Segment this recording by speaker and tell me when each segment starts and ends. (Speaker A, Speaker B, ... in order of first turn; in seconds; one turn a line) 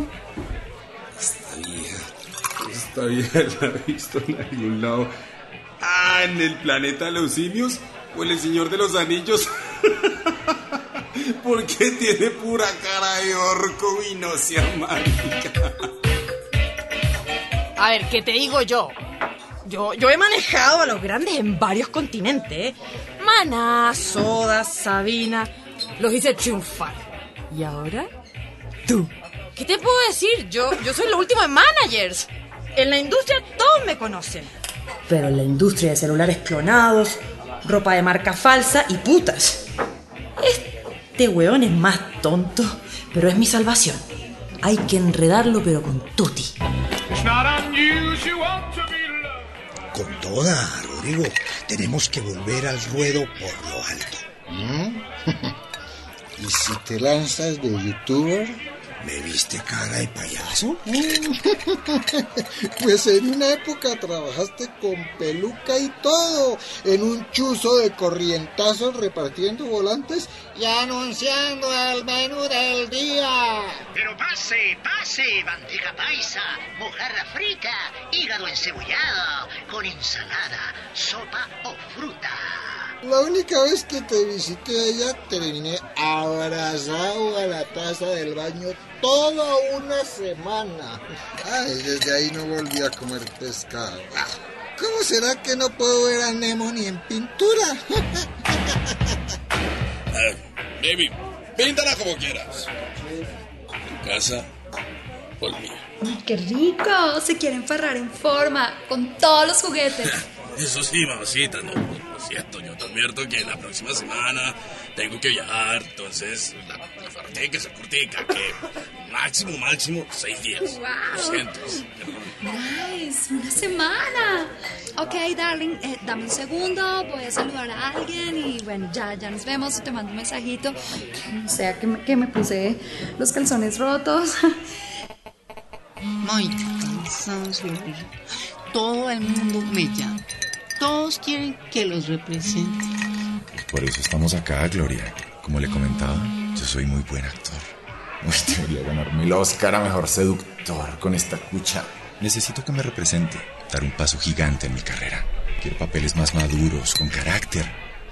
Speaker A: 1.4-2.0
Speaker A: 2.7-5.1
Speaker A: 5.8-9.4
Speaker A: 11.4-15.5
Speaker B: 17.8-19.0
Speaker B: 19.6-28.1
Speaker B: 28.9-34.5
Speaker B: 35.1-39.6
Speaker B: 40.4-44.1
Speaker B: 44.6-46.5
Speaker C: 49.9-54.2
Speaker D: 54.5-55.5
Speaker D: 56.4-58.6
Speaker C: 59.0-60.9
Speaker D: 60.9-73.8
Speaker E: 74.0-82.4
Speaker D: 83.0-98.7
Speaker F: 100.1-102.7
Speaker F: 103.9-104.5
Speaker F: 105.4-105.8
Speaker G: 106.0-110.2
Speaker F: 110.0-122.3
Speaker G: 120.7-121.5
Speaker G: 122.4-134.3
Speaker H: 136.2-138.1
Speaker H: 138.7-140.2
Speaker H: 140.8-142.8
Speaker I: 143.6-147.6
Speaker I: 148.2-157.8